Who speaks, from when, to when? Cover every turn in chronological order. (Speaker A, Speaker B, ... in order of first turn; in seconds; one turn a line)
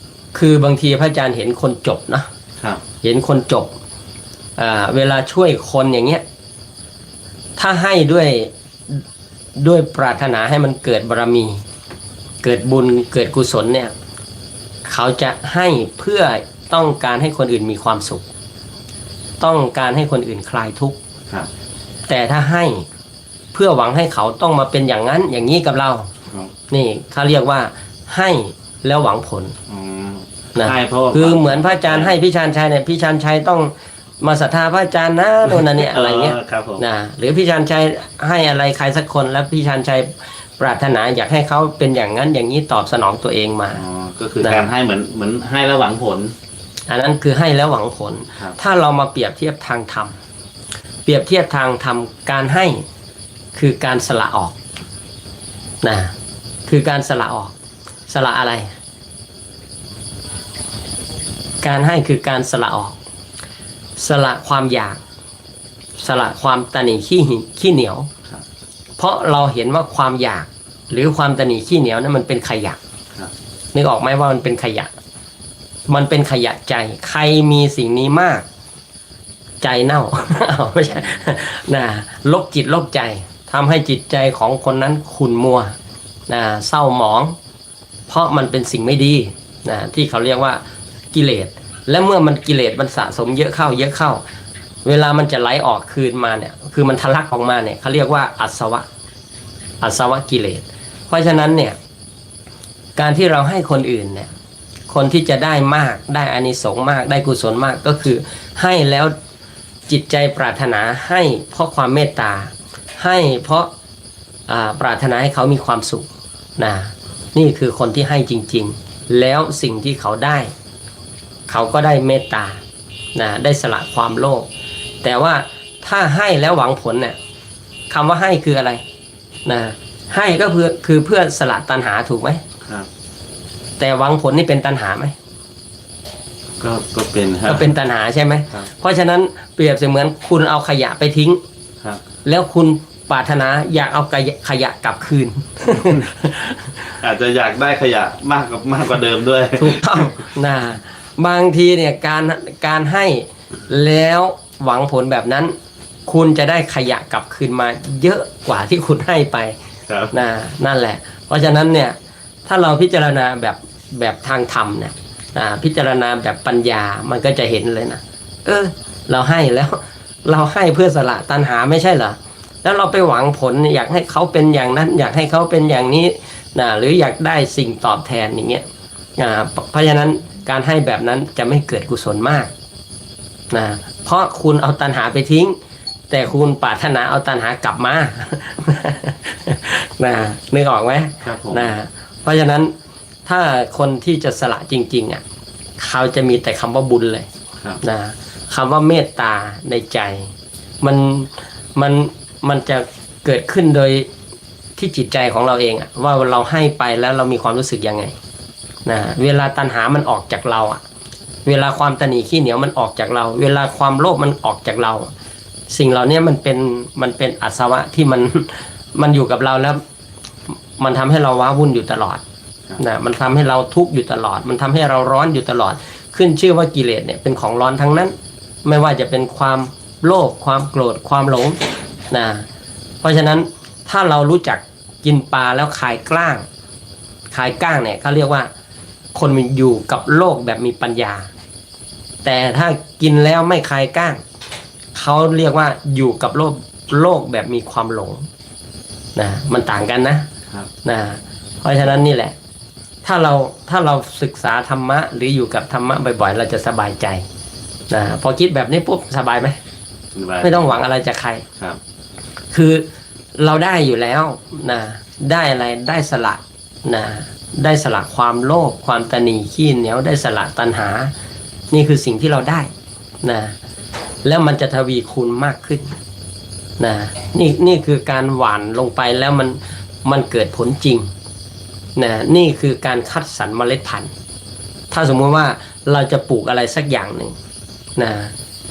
Speaker A: 0.3-2.3
Speaker A: 3.0-3.7
Speaker A: 4.6-6.2
Speaker A: 7.6-9.0
Speaker A: 9.6-11.6
Speaker A: 12.4-13.9
Speaker A: 14.9-18.2
Speaker A: 19.4-21.0
Speaker A: 22.1-22.9
Speaker A: 23.5-26.1
Speaker A: 26.7-29.6
Speaker B: 29.7-32.1
Speaker A: 30.6-43.8
Speaker B: 35.5-36.8
Speaker B: 43.7-46.3
Speaker A: 44.4-44.7
Speaker A: 46.9-50.2
Speaker A: 51.0-52.8
Speaker A: 53.5-54.6
Speaker A: 55.8-56.1
Speaker A: 56.7-57.5
Speaker A: 58.1-58.8
Speaker A: 61.6-63.0
Speaker A: 64.0-65.0
Speaker A: 66.0-68.1
Speaker A: 69.0-72.8
Speaker A: 73.7-74.9
Speaker A: 75.9-78.5
Speaker A: 79.6-85.8
Speaker A: 86.3-87.4
Speaker A: 88.1-90.6
Speaker A: 91.1-94.2
Speaker A: 94.8-98.9
Speaker A: 99.8-101.8
Speaker A: 103.0-104.3
Speaker A: 104.9-109.1
Speaker A: 109.9-113.7
Speaker A: 114.5-120.5
Speaker A: 121.5-122.6
Speaker A: 123.2-124.5
Speaker A: 125.0-127.2
Speaker A: 127.9-128.8
Speaker A: 129.5-132.4
Speaker A: 133.8-135.2
Speaker B: 136.6-137.8
Speaker A: 137.5-141.4
Speaker A: 142.2-146.8
Speaker B: 147.0-150.2
Speaker A: 149.6-155.5
Speaker A: 156.1-159.6
Speaker B: 159.9-160.1
Speaker A: 160.1-178.7
Speaker A: 179.2-182.5
Speaker A: 183.5-185.6
Speaker A: 186.1-192.7
Speaker B: 191.2-191.8
Speaker A: 193.2-195.2
Speaker A: 195.8-197.3
Speaker A: 197.8-204.1
Speaker A: 204.8-208.1
Speaker A: 208.8-210.8
Speaker A: 211.4-215.1
Speaker A: 215.7-219.8
Speaker A: 220.5-222.2
Speaker A: 222.8-232.5
Speaker A: 233.0-236.5
Speaker A: 237.3-238.5
Speaker A: 239.2-241.3
Speaker A: 242.2-244.2
Speaker A: 244.9-248.3
Speaker A: 249.2-250.3
Speaker A: 250.8-252.3
Speaker A: 253.0-257.2
Speaker A: 257.9-259.6
Speaker B: 260.1-260.8
Speaker A: 260.4-261.4
Speaker A: 262.5-262.9
Speaker A: 263.4-271.1
Speaker A: 271.7-272.7
Speaker A: 273.2-273.6
Speaker A: 274.2-275.9
Speaker A: 276.8-281.1
Speaker A: 282.0-284.1
Speaker A: 284.9-287.4
Speaker A: 288.0-288.3